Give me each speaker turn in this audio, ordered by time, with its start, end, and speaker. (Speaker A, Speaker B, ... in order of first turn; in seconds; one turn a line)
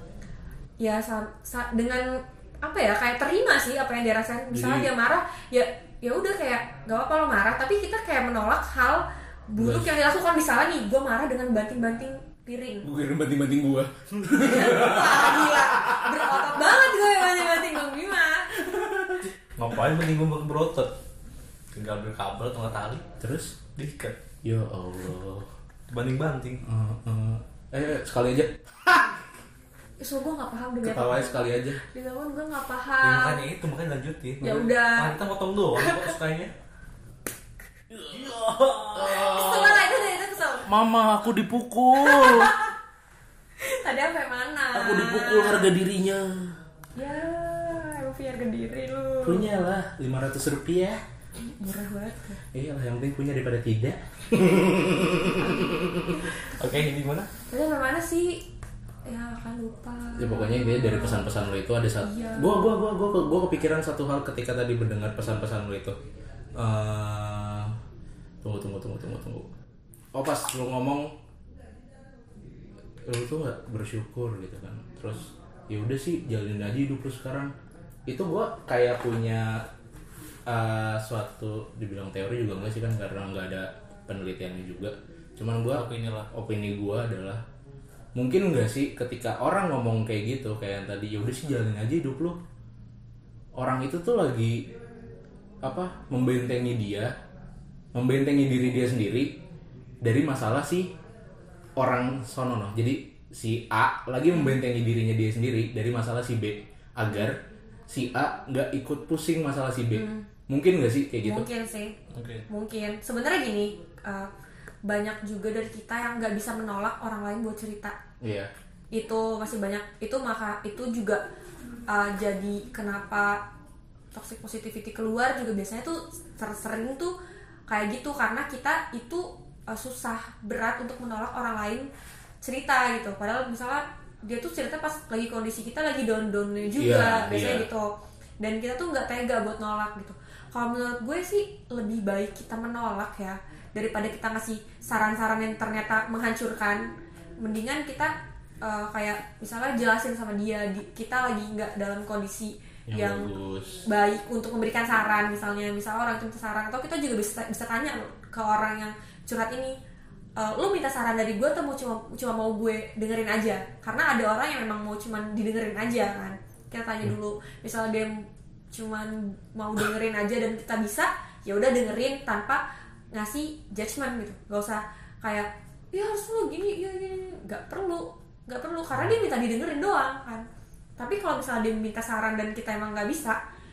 Speaker A: 0.8-12.9
Speaker B: 4.5-4.9
Speaker B: 9.6-9.9
Speaker B: 12.8-16.5
Speaker A: 14.4-18.6
Speaker B: 18.6-19.2
Speaker C: 19.6-20.9
Speaker C: 21.7-23.1
Speaker B: 23.2-23.6
Speaker C: 23.7-24.1
Speaker B: 24.4-25.5
Speaker C: 25.9-26.6
Speaker B: 26.6-29.2
Speaker A: 30.0-33.4
Speaker B: 30.8-31.8
Speaker C: 33.0-36.5
Speaker A: 34.4-35.1
Speaker A: 35.8-36.2
Speaker B: 37.9-38.2
Speaker C: 38.1-39.8
Speaker B: 39.0-39.9
Speaker A: 39.1-40.7
Speaker B: 40.7-42.6
Speaker A: 42.0-42.7
Speaker A: 43.6-45.7
Speaker B: 44.7-46.6
Speaker A: 47.0-49.5
Speaker B: 49.2-51.0
Speaker A: 51.4-52.4
Speaker B: 52.5-56.3
Speaker C: 56.4-57.3
Speaker A: 57.5-58.5
Speaker A: 59.1-61.3
Speaker B: 60.2-66.0
Speaker A: 62.0-62.8
Speaker B: 66.5-67.8
Speaker B: 68.4-69.5
Speaker B: 70.1-71.2
Speaker B: 73.1-77.5
Speaker B: 78.1-79.7
Speaker B: 80.5-87.4
Speaker C: 85.7-86.3
Speaker B: 88.2-92.4
Speaker B: 93.6-94.7
Speaker B: 95.6-97.1
Speaker B: 97.9-99.3
Speaker B: 100.0-100.9
Speaker B: 101.8-111.5
Speaker A: 109.9-110.3
Speaker A: 111.2-112.0
Speaker C: 112.1-112.5
Speaker A: 112.5-114.3
Speaker A: 114.8-118.0
Speaker B: 118.2-118.5
Speaker A: 118.9-121.2
Speaker A: 121.9-123.4
Speaker A: 124.1-127.1
Speaker A: 127.7-131.9
Speaker A: 132.4-137.9
Speaker B: 136.8-137.7
Speaker A: 138.4-153.3
Speaker B: 152.9-153.8
Speaker A: 153.9-159.8
Speaker A: 160.4-180.5
Speaker A: 181.0-183.4